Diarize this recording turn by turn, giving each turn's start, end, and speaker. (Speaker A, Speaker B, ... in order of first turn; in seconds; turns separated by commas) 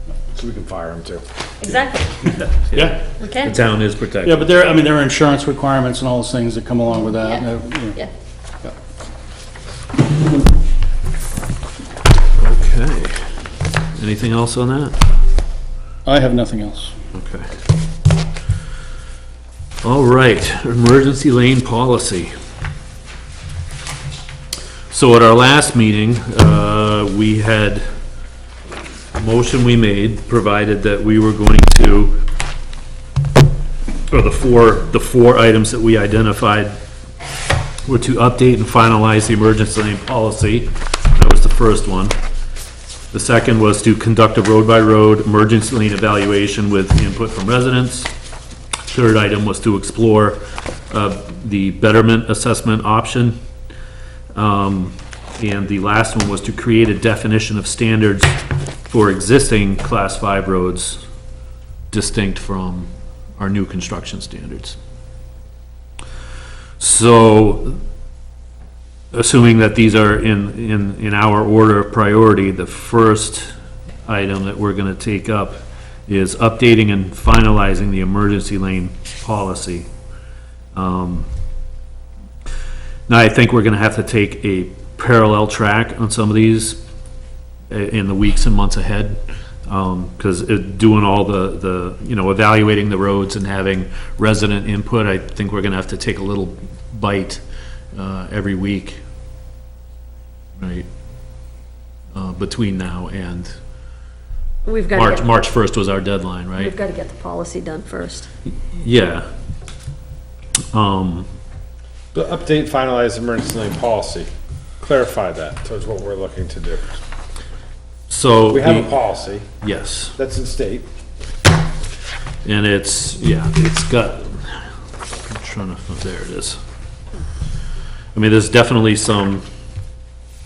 Speaker A: 0.3-1.2, Speaker B: 1.6-2.3, Speaker C: 2.6-4.8, Speaker D: 2.7-3.0, Speaker B: 3.2-3.6, Speaker D: 4.2-8.0, Speaker B: 7.2-8.1, Speaker C: 12.4-15.0, Speaker D: 16.0-16.9, Speaker C: 17.1-17.5, Speaker C: 19.8-22.3, Speaker C: 24.9-27.8, Speaker C: 29.1-32.2, Speaker C: 34.1-36.8, Speaker C: 37.9-42.1, Speaker C: 43.1-48.1, Speaker C: 48.9-53.4, Speaker C: 54.3-61.0, Speaker C: 61.9-64.8, Speaker C: 66.8-67.8, Speaker C: 69.1-73.5, Speaker C: 74.0-79.9, Speaker C: 80.7-81.3, Speaker C: 83.1-86.8, Speaker C: 87.7-97.4, Speaker C: 97.9-99.0, Speaker C: 100.6-100.9, Speaker C: 102.1-103.5, Speaker B: 104.6-105.3, Speaker C: 104.9-106.7, Speaker B: 106.5-108.3, Speaker C: 108.7-109.3, Speaker C: 110.7-111.3, Speaker A: 112.1-114.3, Speaker A: 114.8-117.0, Speaker C: 118.1-118.9, Speaker A: 118.5-119.5, Speaker C: 119.6-120.1, Speaker A: 120.2-120.9, Speaker C: 122.4-126.6, Speaker C: 128.1-129.4